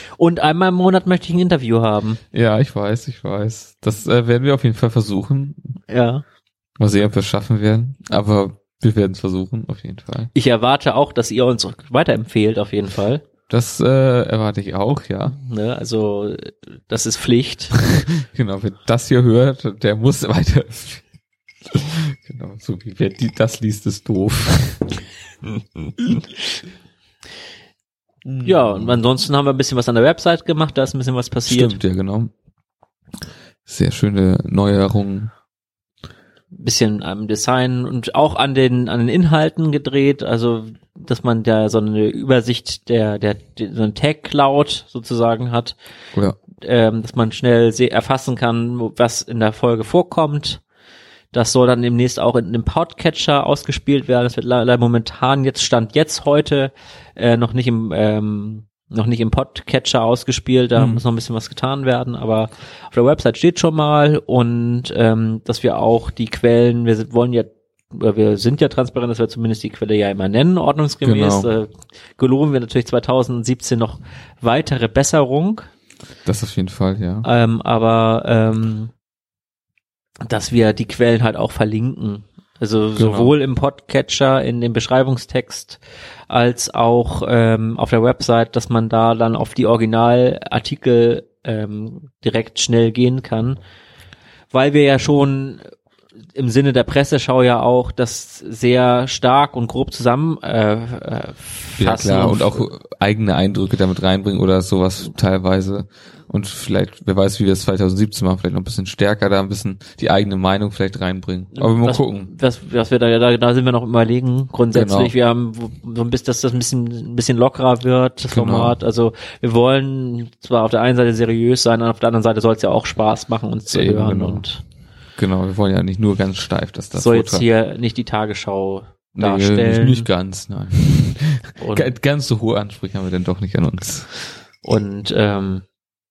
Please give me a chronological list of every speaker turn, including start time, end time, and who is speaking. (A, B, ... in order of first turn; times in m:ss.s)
0:00.2-0:02.2 A
0:02.3-0:05.8 B
0:05.9-0:06.2 A
0:06.8-0:10.3 B
0:10.3-0:13.2 A
0:13.5-0:15.4 B
0:15.3-0:17.8 A
0:17.8-0:21.0 B
0:21.7-0:25.0 B
0:28.2-0:29.0 B
0:28.4-0:31.8 A
0:31.5-0:32.3 B
0:33.7-0:35.3 B
0:36.5-0:45.8 A
0:46.6-0:50.6 A
0:51.3-1:15.7 A
1:00.8-1:01.0 B
1:11.0-1:11.5 B
1:16.3-1:17.3 B
1:17.2-1:18.9 A
1:20.2-1:33.6 A
1:23.0-1:23.4 B
1:34.5-1:35.6 A
1:36.4-1:42.7 A
1:41.8-1:52.3 B
1:51.6-2:04.6 A
1:54.7-1:55.1 B
1:58.3-1:58.8 B
2:03.7-2:04.4 B
2:05.2-2:07.5 B
2:06.9-2:10.1 A
2:09.2-2:14.1 B
2:11.6-2:11.9 A
2:14.6-2:15.6 A